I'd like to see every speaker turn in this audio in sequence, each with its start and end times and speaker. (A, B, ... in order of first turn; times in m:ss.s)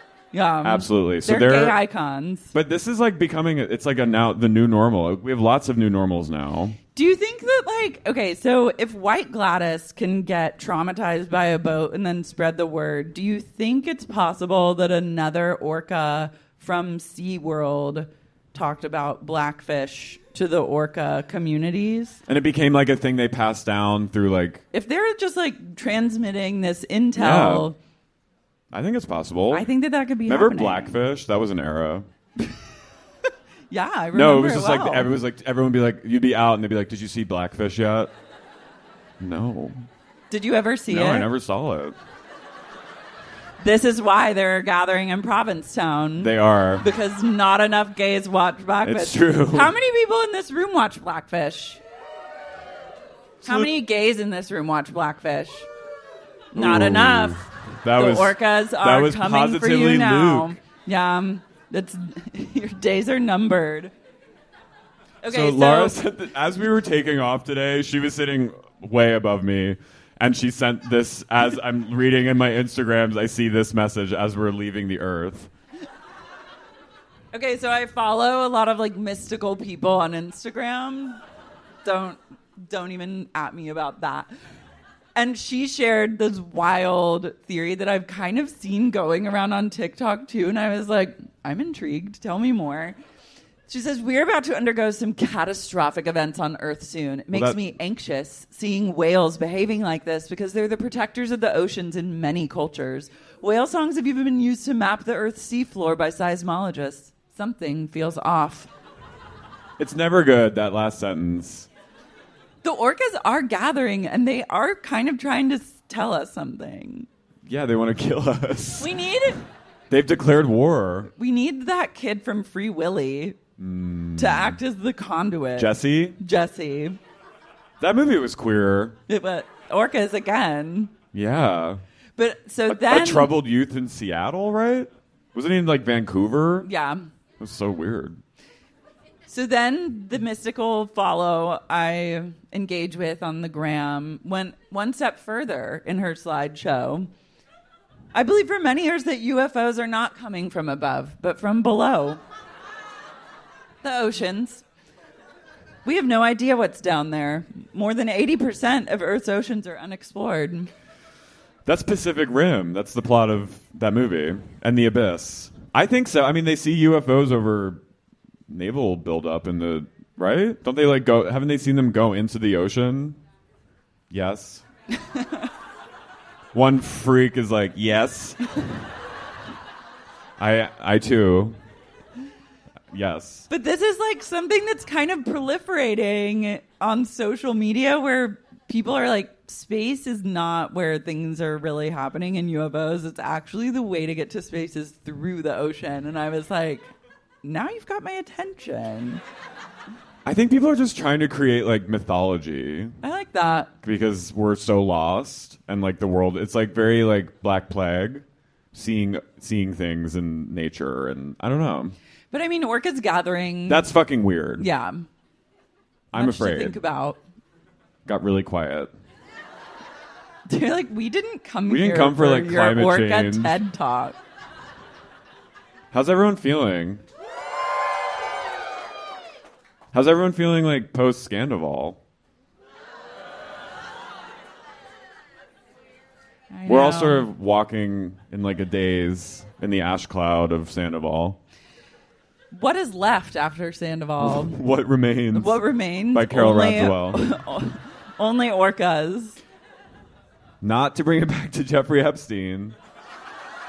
0:00.3-0:02.5 A
0:00.6-0:01.8 B
0:02.5-0:06.8 B
0:06.9-0:22.2 A
0:22.3-0:24.6 B
0:24.7-0:27.8 A
0:27.2-0:27.7 B
0:28.7-0:29.7 B
0:29.5-0:31.0 A
0:30.3-0:32.0 B
0:33.7-0:35.1 A
0:34.1-0:38.1 B
0:39.2-0:39.8 B
0:40.3-0:41.3 A
0:40.9-0:42.0 B
0:43.6-0:51.8 A
0:46.2-0:46.8 B
0:48.8-0:49.7 B
0:53.4-0:53.7 B
0:53.4-0:55.7 A
0:56.5-1:03.9 A
0:56.5-1:00.6 B
1:05.2-1:06.0 A
1:05.3-1:15.5 B
1:17.3-1:21.2 A
1:21.8-1:24.3 A
1:25.2-1:33.0 A
1:33.7-1:48.7 A
1:37.3-1:37.6 B
1:49.8-1:51.7 B
1:52.6-1:57.1 A
1:57.4-1:58.9 B
1:58.8-1:59.4 A
1:59.9-2:01.1 B
2:01.1-2:03.4 A
2:03.6-2:04.6 B
2:04.2-2:07.0 A
2:05.6-2:06.2 B
2:07.8-2:09.0 B
2:09.1-2:10.9 A
2:11.1-2:11.8 B
2:12.2-2:13.3 A
2:12.7-2:16.7 B
2:16.6-2:17.0 A
2:17.4-2:18.2 B
2:19.3-2:27.1 A
2:28.1-2:32.2 A
2:33.8-2:34.6 A
2:35.8-2:40.7 A
2:41.6-2:47.8 B
2:48.5-2:53.2 B
2:54.1-2:54.6 B
2:56.5-2:58.4 B
3:00.4-3:01.6 B
3:02.9-3:03.5 B
3:03.5-3:16.9 A
3:17.4-3:19.2 A
3:20.2-3:23.0 B
3:23.0-3:23.7 A
3:23.8-3:32.0 B
3:32.3-3:33.8 A
3:33.7-3:34.7 B
3:34.6-3:35.1 A
3:36.1-3:36.8 B
3:36.1-3:37.2 A
3:38.0-3:38.9 B
3:40.5-3:44.2 A
3:41.7-3:43.6 B
3:45.9-3:47.0 B
3:49.9-3:52.0 B
3:56.5-3:57.3 A
3:56.7-4:01.4 B
4:02.5-4:04.6 A
4:04.2-4:07.2 B
4:05.3-4:09.4 A
4:10.6-4:12.8 B